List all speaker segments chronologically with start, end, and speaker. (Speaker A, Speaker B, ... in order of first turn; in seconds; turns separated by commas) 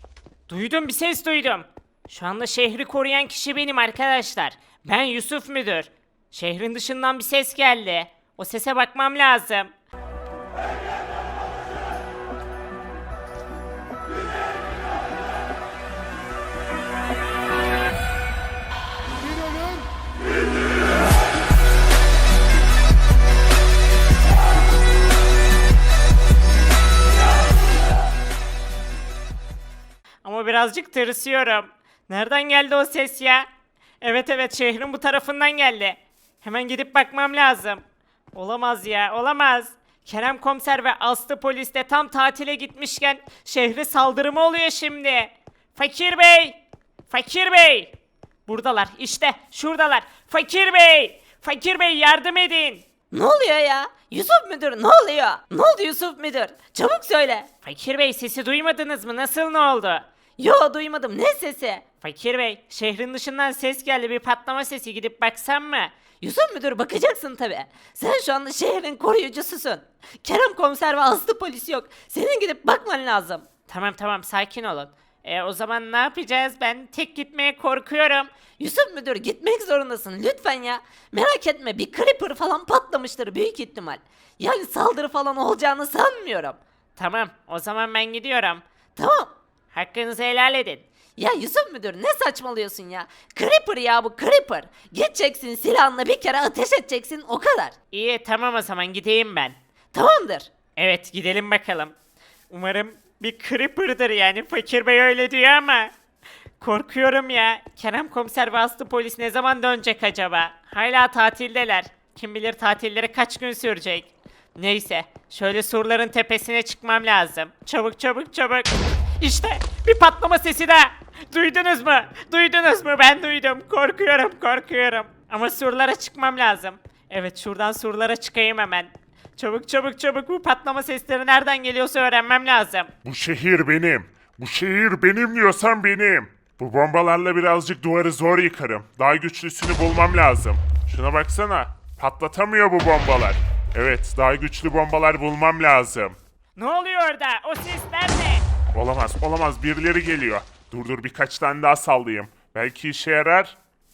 Speaker A: 0.5-9.7, Speaker A: 30.2-33.5, Speaker A: 34.0-37.8, Speaker A: 38.3-46.6, Speaker A: 47.1-47.9, Speaker A: 48.5-52.8, Speaker B: 53.1-57.5, Speaker A: 57.6-60.0, Speaker B: 60.4-61.8, Speaker A: 62.0-65.9, Speaker B: 66.2-73.5, Speaker A: 73.7-78.3, Speaker B: 78.6-86.6, Speaker A: 87.0-88.6, Speaker B: 89.0-89.3, Speaker A: 89.7-90.8, Speaker B: 91.2-97.7, Speaker A: 97.9-99.6, Speaker B: 99.9-100.5, Speaker A: 100.8-101.9, Speaker A: 102.5-105.9, Speaker A: 106.6-132.9, Speaker C: 133.1-146.2, Speaker A: 146.6-148.4, Speaker C: 148.7-153.6